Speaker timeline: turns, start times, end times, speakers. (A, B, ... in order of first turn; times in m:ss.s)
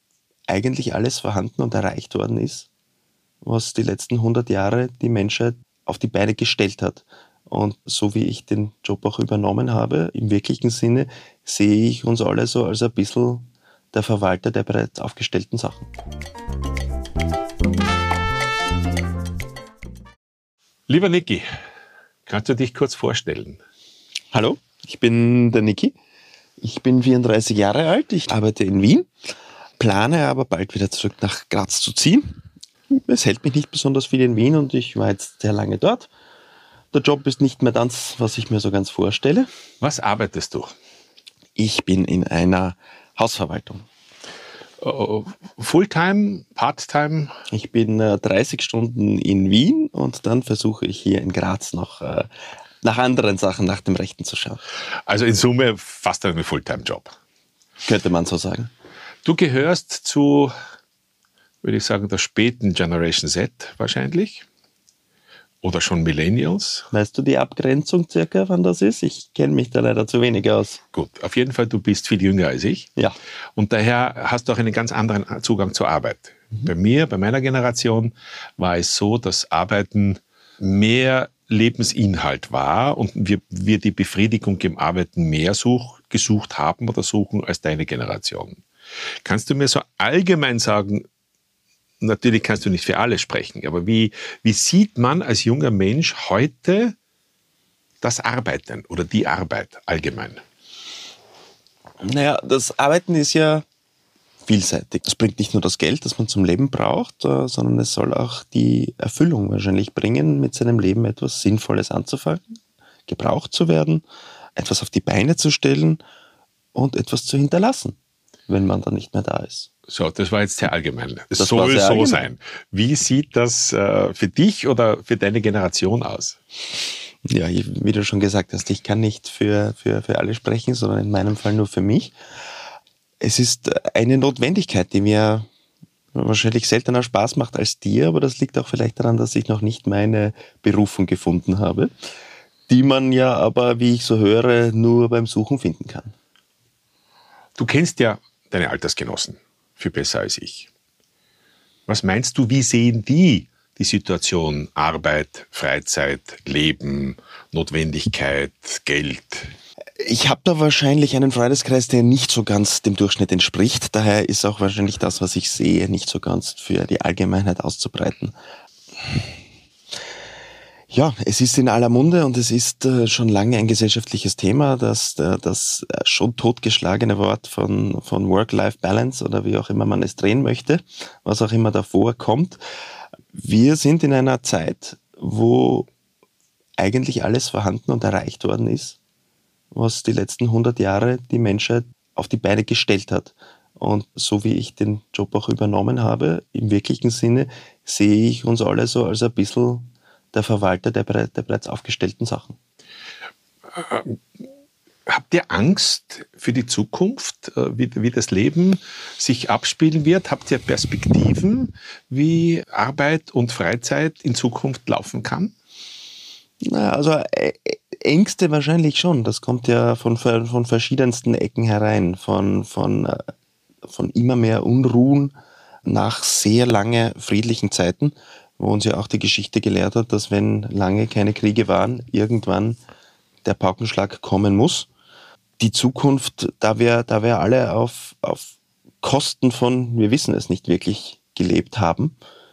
0:00.5-0:02.7 A
0:03.4-0:15.9 A
0:20.9-0:21.4 B
0:22.2-0:23.6 B
0:24.3-0:25.9 A
0:26.6-0:29.1 A
0:29.8-0:32.4 A
0:32.9-0:36.1 A
0:36.9-0:39.5 A
0:39.8-0:40.7 B
0:41.6-0:43.8 A
0:44.8-0:47.3 B
0:47.5-0:52.3 A
0:52.8-0:54.6 A
0:55.1-0:57.1 B
0:57.8-0:58.7 A
0:59.2-1:00.5 B
1:01.6-1:04.4 B
1:05.6-1:06.9 B
1:06.9-1:10.8 A
1:10.9-1:12.9 B
1:13.6-1:28.6 B
1:29.2-1:31.0 B
1:32.0-1:36.9 B
1:38.0-1:40.4 B
1:42.0-1:43.6 A
1:44.4-1:52.4 A
1:53.1-1:54.0 A
1:54.6-1:56.0 A
1:56.7-1:58.0 A
1:58.5-1:59.7 A
1:59.9-2:06.4 B
2:01.4-2:02.3 A
2:07.2-2:12.1 A
2:13.2-2:15.5 A
2:16.1-2:21.9 A
2:22.7-2:26.1 A
2:27.6-2:30.7 B
2:31.9-2:39.5 B
2:40.0-2:48.3 A
2:50.9-3:02.6 A
3:03.3-3:05.9 A
3:06.8-3:09.0 A
3:09.7-3:22.6 A
3:23.7-3:24.2 B
3:25.1-3:35.5 B
3:36.6-3:43.2 A
3:43.8-3:45.3 A
3:45.8-3:52.8 A
3:53.4-3:54.9 A
3:55.6-4:02.2 A